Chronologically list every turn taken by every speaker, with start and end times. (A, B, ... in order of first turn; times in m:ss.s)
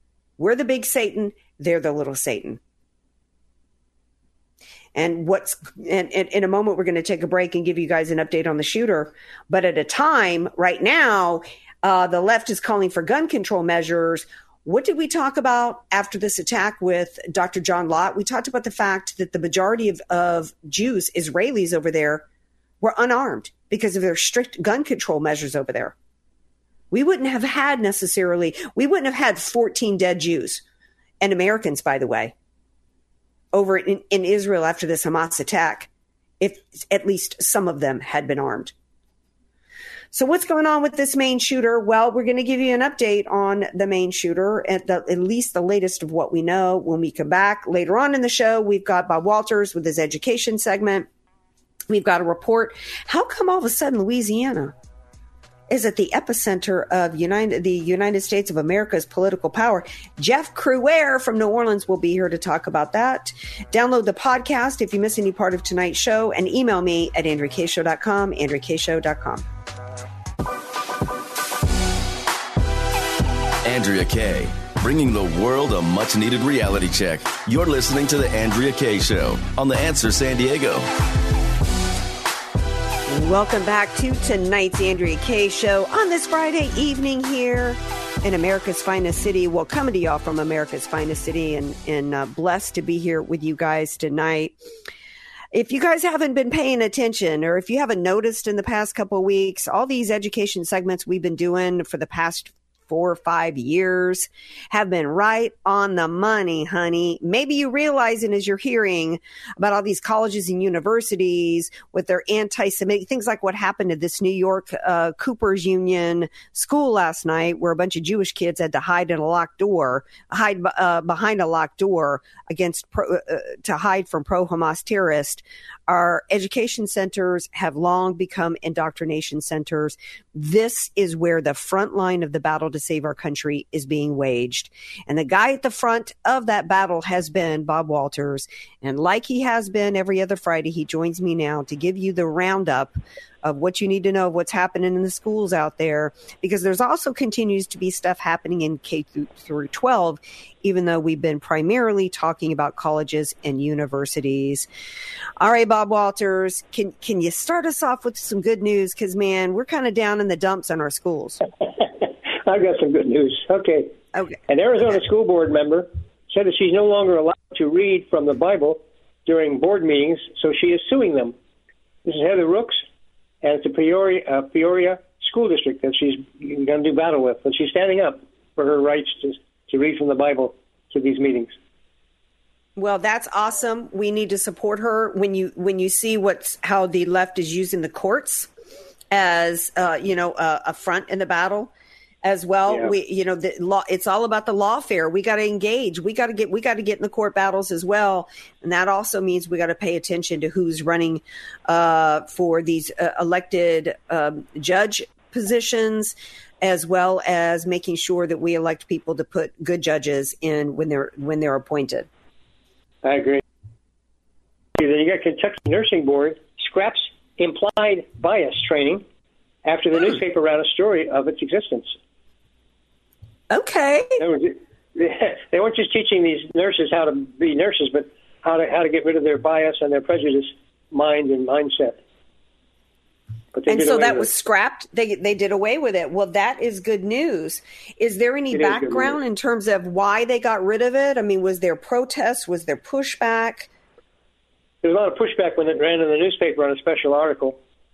0:00.4-0:02.6 A
0:04.9-0:22.2 A
0:22.8-0:26.0 A
0:26.9-0:30.6 A
0:31.2-0:32.3 A
0:33.5-0:38.7 A
0:40.1-0:51.1 A
0:51.9-0:54.8 A
0:55.7-1:09.5 A
1:13.6-1:20.9 B
1:23.1-1:34.5 A
1:35.5-2:34.7 A
2:35.4-2:41.4 A
2:41.6-2:43.9 C
2:44.5-2:51.4 C
2:52.0-2:52.8 C
2:53.4-3:01.5 C
3:02.8-3:08.5 A
3:09.1-3:11.7 A
3:12.2-3:32.1 A
3:33.0-3:33.4 C
3:34.8-3:39.0 C
3:39.6-3:41.9 C
3:43.5-3:44.2 A
3:44.2-3:52.0 C
3:53.5-3:54.3 C
3:53.7-4:03.7 A
3:58.5-3:59.2 C
4:04.8-4:07.6 C